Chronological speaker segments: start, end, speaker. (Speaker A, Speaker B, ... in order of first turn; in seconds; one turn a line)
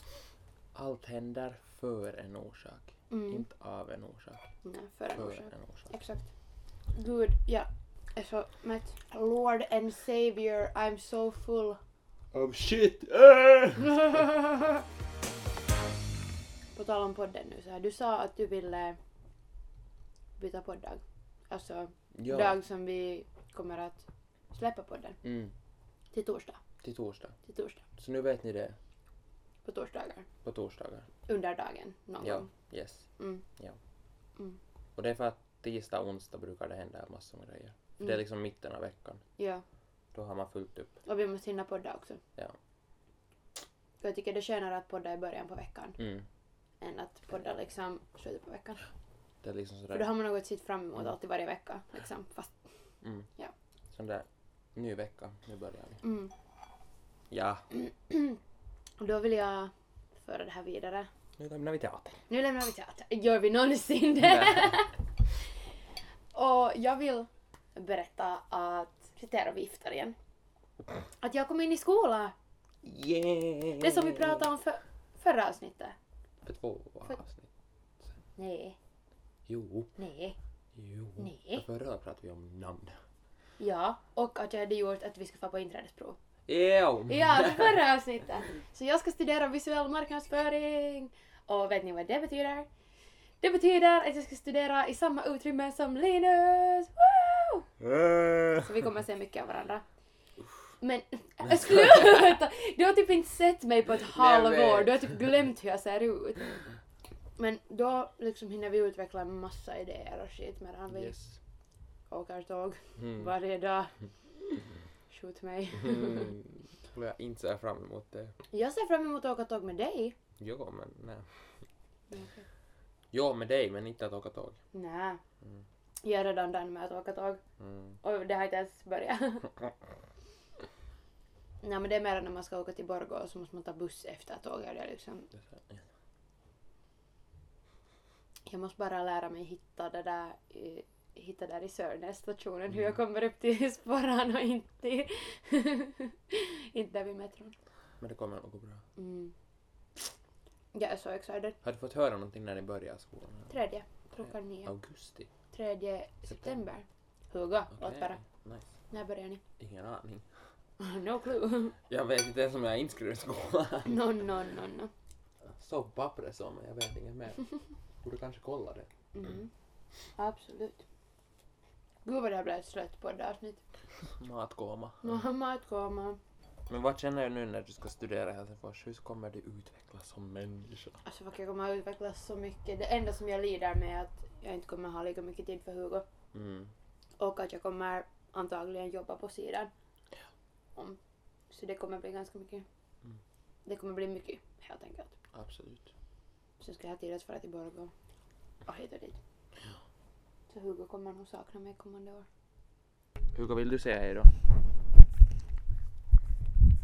Speaker A: 0.7-4.5
Speaker B: 3.1-3.5
Speaker B: 4.6-6.3
Speaker A: 5.1-5.9
Speaker B: 6.9-11.8
Speaker A: 12.3-14.1
Speaker B: 13.9-14.4
Speaker B: 16.7-19.0
Speaker B: 20.4-25.2
Speaker A: 22.1-22.6
Speaker A: 25.2-25.5
Speaker B: 26.1-26.6
Speaker A: 26.8-27.4
Speaker B: 27.4-27.8
Speaker A: 28.0-28.8
Speaker B: 29.6-30.3
Speaker A: 30.4-31.1
Speaker B: 31.3-32.5
Speaker A: 32.2-33.0
Speaker B: 33.2-33.4
Speaker A: 35.0-39.2
Speaker B: 39.4-39.6
Speaker A: 40.1-40.9
Speaker B: 41.0-42.2
Speaker B: 44.0-46.0
Speaker A: 46.0-46.2
Speaker B: 46.8-48.9
Speaker A: 49.4-50.2
Speaker B: 49.9-52.5
Speaker A: 53.0-53.3
Speaker A: 53.9-56.0
Speaker B: 56.0-56.3
Speaker A: 57.3-57.6
Speaker B: 57.7-58.4
Speaker B: 59.0-61.1
Speaker A: 61.4-62.2
Speaker B: 62.3-65.0
Speaker A: 64.2-64.8
Speaker B: 66.3-70.2
Speaker B: 71.2-72.3
Speaker A: 72.8-74.5
Speaker B: 73.8-76.0
Speaker A: 76.4-77.5
Speaker B: 78.4-78.8
Speaker A: 79.5-79.9
Speaker B: 80.0-80.4
Speaker A: 80.8-83.0
Speaker B: 81.2-81.6
Speaker B: 83.6-86.2
Speaker A: 86.5-87.9
Speaker B: 87.1-92.7
Speaker B: 93.4-97.7
Speaker A: 97.9-98.6
Speaker B: 98.6-99.8
Speaker B: 100.8-106.5
Speaker A: 104.1-105.4
Speaker B: 107.4-111.2
Speaker A: 110.9-111.4
Speaker B: 112.1-114.0
Speaker A: 113.0-113.3
Speaker B: 115.1-116.3
Speaker A: 115.7-118.3
Speaker B: 118.5-120.1
Speaker A: 120.4-121.5
Speaker B: 122.1-122.5
Speaker A: 123.1-124.6
Speaker B: 124.7-125.2
Speaker B: 126.0-127.4
Speaker A: 127.6-128.0
Speaker B: 128.0-129.6
Speaker B: 131.6-135.3
Speaker A: 135.3-135.8
Speaker B: 138.5-147.5
Speaker A: 148.0-148.8
Speaker B: 149.0-149.3
Speaker B: 150.7-151.6
Speaker A: 151.6-153.5
Speaker B: 153.5-154.7
Speaker A: 154.1-155.3
Speaker B: 155.5-158.2
Speaker A: 156.3-156.6
Speaker A: 157.7-158.7
Speaker B: 158.9-159.4
Speaker A: 159.6-160.2
Speaker B: 160.8-161.8
Speaker A: 161.9-164.2
Speaker B: 163.8-164.9
Speaker A: 165.4-167.5
Speaker A: 168.0-168.9
Speaker B: 169.1-169.5
Speaker B: 170.2-170.8
Speaker B: 172.0-173.6
Speaker A: 174.2-175.2
Speaker B: 175.0-176.2
Speaker A: 176.7-181.0
Speaker B: 181.0-186.0
Speaker A: 186.3-186.7
Speaker B: 187.2-189.7
Speaker B: 191.5-192.6
Speaker B: 193.7-195.1
Speaker A: 195.3-195.9
Speaker B: 196.6-197.9
Speaker B: 198.6-199.2
Speaker B: 200.5-202.2
Speaker A: 203.3-204.3